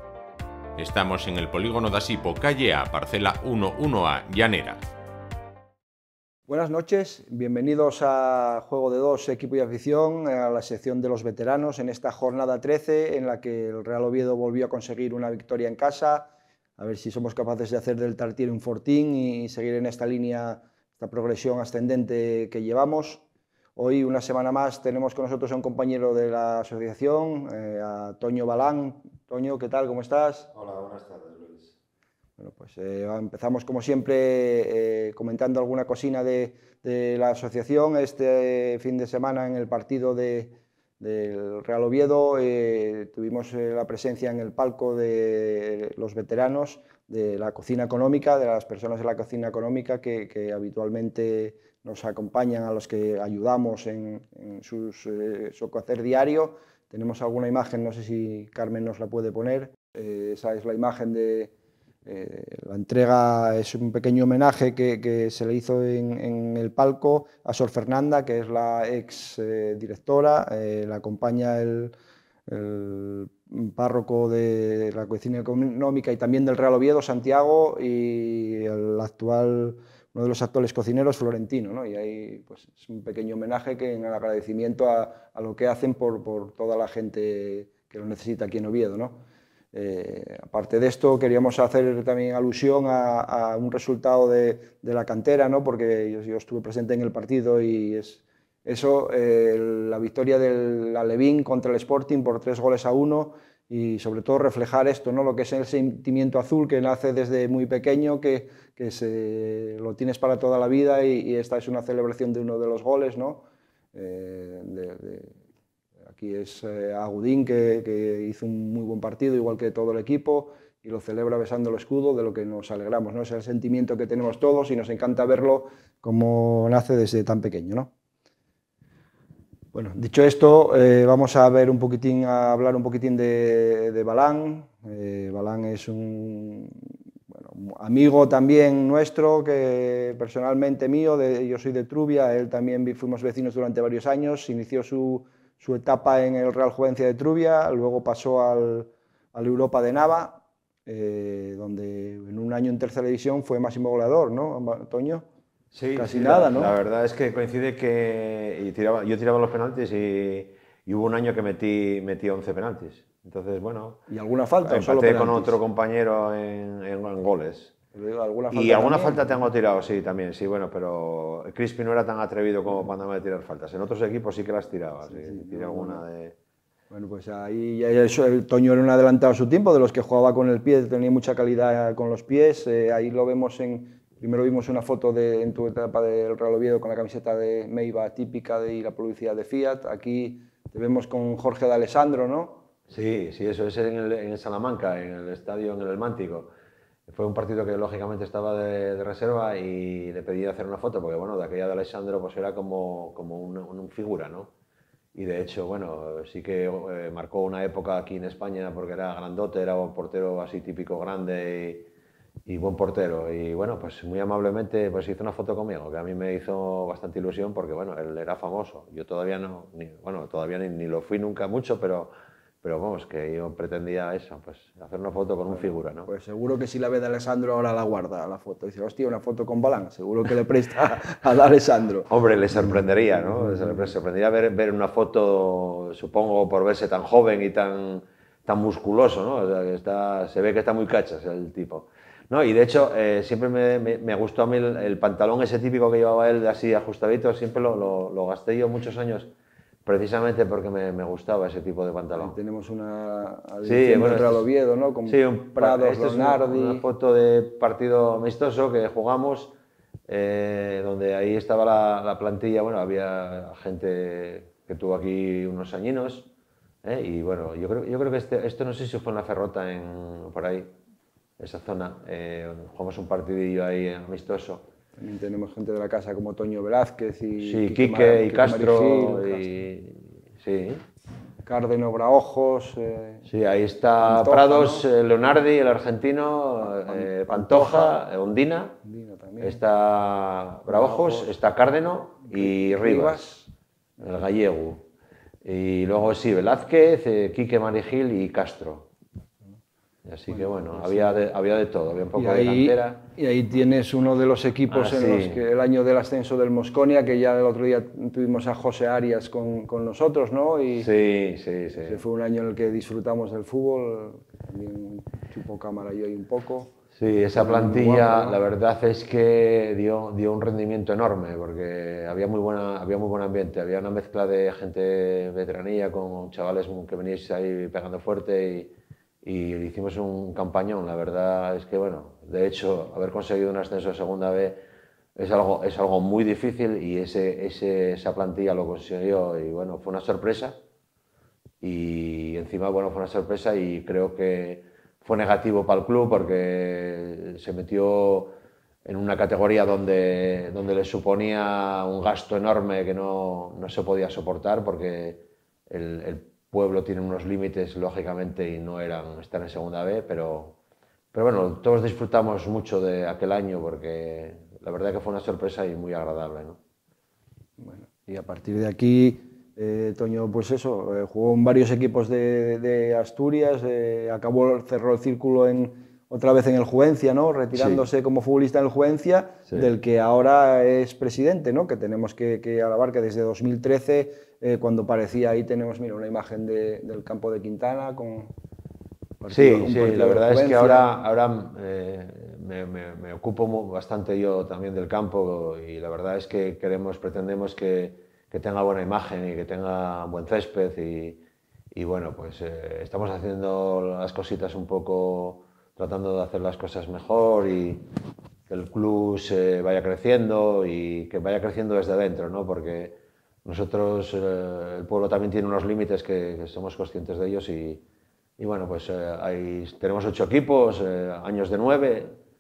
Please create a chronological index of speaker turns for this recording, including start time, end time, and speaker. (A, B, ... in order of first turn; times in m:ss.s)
0:00.8-0:04.8 A
0:06.5-0:23.2 B
0:23.8-0:30.5 B
0:30.5-0:31.7 C
0:32.4-1:01.5 B
1:02.1-1:11.9 B
1:12.5-1:29.2 B
1:29.7-1:53.4 B
1:53.9-1:55.4 B
1:56.1-2:07.9 B
2:09.7-2:16.8 B
2:17.3-2:35.2 B
2:35.7-2:44.0 C
2:36.0-2:36.8 B
2:44.1-2:45.6 B
2:44.6-2:47.7 C
2:47.9-2:49.3 B
2:48.5-2:56.4 C
2:55.1-2:56.0 B
2:56.9-3:12.6 B
3:12.9-3:16.5 C
3:17.1-3:24.5 C
3:25.2-3:31.9 C
3:32.5-3:46.1 C
3:45.5-3:52.1 B
3:52.1-4:09.3 C
4:09.8-4:12.4 C
4:12.2-4:16.9 B
4:13.6-4:14.5 C
4:15.1-4:19.5 C
4:20.1-4:26.3 C
4:26.8-4:30.7 C
4:31.4-4:34.7 C
4:35.0-4:39.5 B
4:37.4-4:40.8 C
4:41.4-4:43.3 B
4:43.3-4:48.8 C
4:44.0-4:44.9 B
4:46.6-4:48.0 B
4:48.8-4:49.6 B
4:49.4-4:53.2 C
4:50.7-4:51.4 B
4:52.3-4:53.5 B
4:54.0-4:54.8 C
4:55.4-4:58.9 C
5:00.0-5:03.1 C
5:00.3-5:01.2 B
5:02.2-5:10.9 B
5:04.7-5:05.4 C
5:10.8-5:12.0 C
5:11.8-5:16.7 B
5:16.9-5:34.6 C
5:17.4-5:18.4 B
5:35.2-5:40.6 C
5:41.6-5:48.3 C
5:48.8-6:00.6 C
6:01.1-6:06.6 C
6:07.6-6:28.3 B
6:17.5-6:17.8 C
6:29.2-6:30.8 B
6:29.3-6:41.2 C
6:41.7-6:47.8 C
6:48.5-6:57.8 C
6:58.4-7:02.2 C